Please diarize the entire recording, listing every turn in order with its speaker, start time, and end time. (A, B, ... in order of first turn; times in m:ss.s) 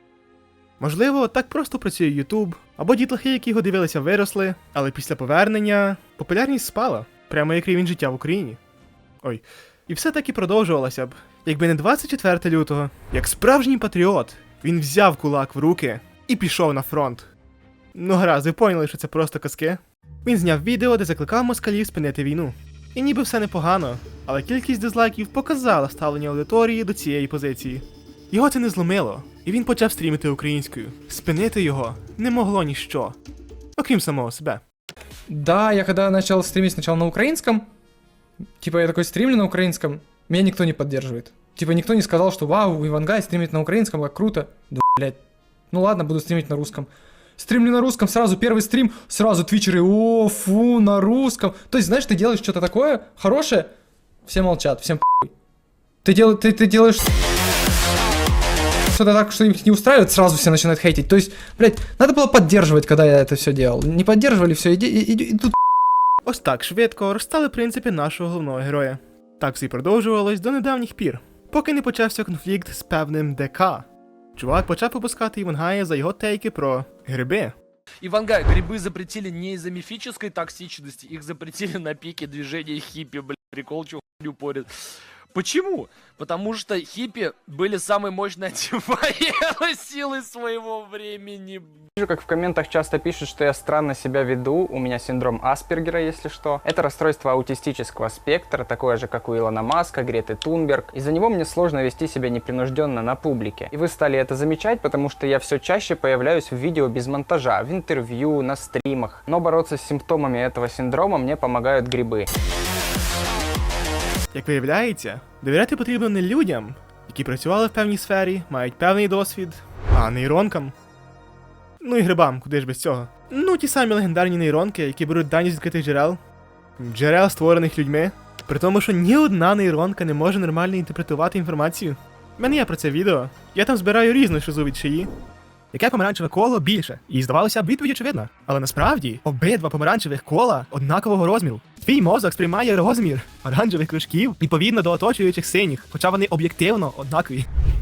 0:00.8-0:08.6 A
0:09.2-0:17.3 A
0:17.9-0:33.2 A
0:33.8-0:34.6 A
0:35.3-0:37.7 B
0:38.6-0:45.2 B
0:45.7-0:53.7 B
0:54.3-0:55.3 B
0:56.0-0:57.1 B
0:58.9-1:05.6 B
1:06.2-1:17.6 A
1:18.0-1:24.7 C
1:25.3-1:31.8 C
1:32.0-1:52.3 D
1:54.3-2:00.7 A
2:01.8-2:06.2 A
2:06.8-2:15.1 A
2:15.7-2:27.5 A